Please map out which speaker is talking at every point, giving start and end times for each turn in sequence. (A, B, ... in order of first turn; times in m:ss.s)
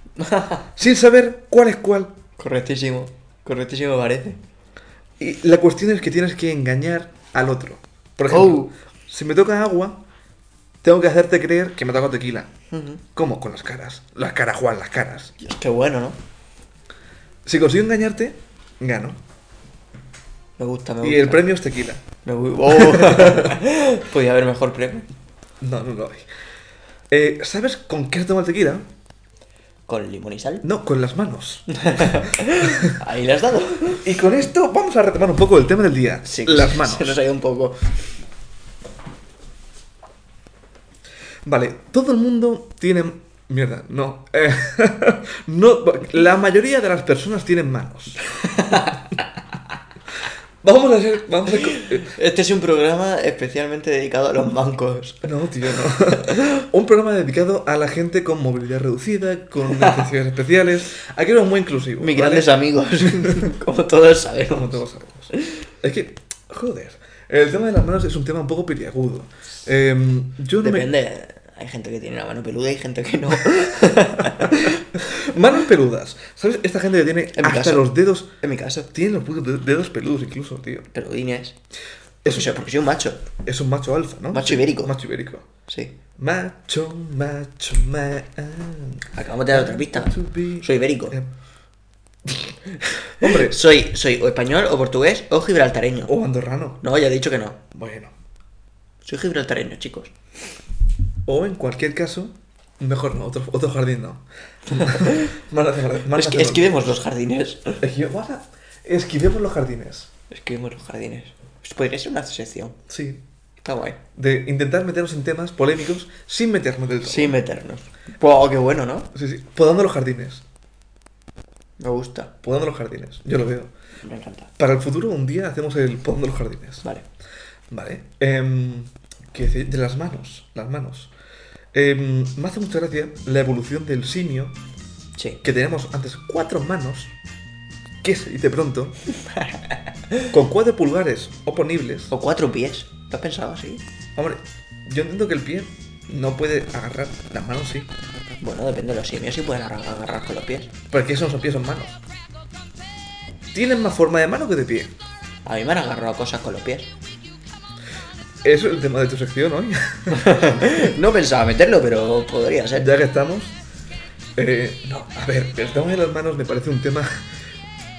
0:00.2-0:00.7 A
0:00.8-0:02.2 B
0:02.4-0:04.4 A
0:05.2-0:10.0 B
0:08.3-0:08.7 A
0:10.8-0:12.5 B
0:12.7-0:13.0 A
0:13.1-0:15.3 B
0:15.4-0:16.2 A
0:17.4-0:19.2 B
0:20.6-0:21.5 A
0:21.0-0:22.0 B
0:22.2-0:25.1 A
0:22.7-0:23.6 B
0:25.6-0:26.2 B
0:27.1-0:28.8 B
0:29.9-0:30.6 A
0:30.6-0:32.9 B
0:31.7-0:34.0 A
0:34.0-0:37.2 B
0:36.2-0:37.8 A
0:41.4-0:48.2 B
0:48.4-0:49.2 A
0:50.6-0:52.1 B
0:51.6-0:55.3 A
0:55.2-1:03.5 B
0:56.2-0:56.6 A
1:02.0-1:04.8 A
1:04.4-1:10.9 B
1:10.6-1:14.9 A
1:13.4-1:20.9 B
1:17.4-1:18.9 A
1:20.9-1:21.6 A
1:22.2-1:22.5 B
1:22.2-1:23.3 A
1:23.4-1:25.4 B
1:24.3-1:24.9 A
1:25.7-1:25.9 A
1:26.2-1:31.3 B
1:29.1-1:31.2 A
1:33.2-1:33.6 B
1:33.2-1:36.1 A
1:36.1-1:36.8 B
1:36.8-1:37.6 A
1:37.7-1:38.1 B
1:39.0-1:40.1 A
1:41.2-1:46.9 B
1:44.7-1:45.3 A
1:46.1-1:47.8 A
1:47.8-1:50.1 B
1:50.3-1:52.8 A
1:52.9-1:53.2 B
1:53.6-1:54.0 A
1:54.2-1:57.4 B
1:57.0-1:59.1 A
1:59.1-2:00.4 B
2:01.8-2:02.3 A
2:02.4-2:03.7 B
2:04.0-2:04.5 A
2:04.6-2:06.8 B
2:07.7-2:11.1 B
2:11.7-2:14.6 B
2:15.2-2:15.4 A
2:15.4-2:17.1 B
2:18.0-2:19.0 B
2:20.3-2:22.1 B
2:22.1-2:23.8 A
2:24.2-2:27.9 B
2:28.4-2:30.7 A
2:30.9-2:32.0 B
2:33.5-2:34.9 B
2:35.4-2:36.9 A
2:38.4-2:40.8 B
2:40.1-2:42.9 A
2:42.7-2:43.6 B
2:44.4-2:47.2 B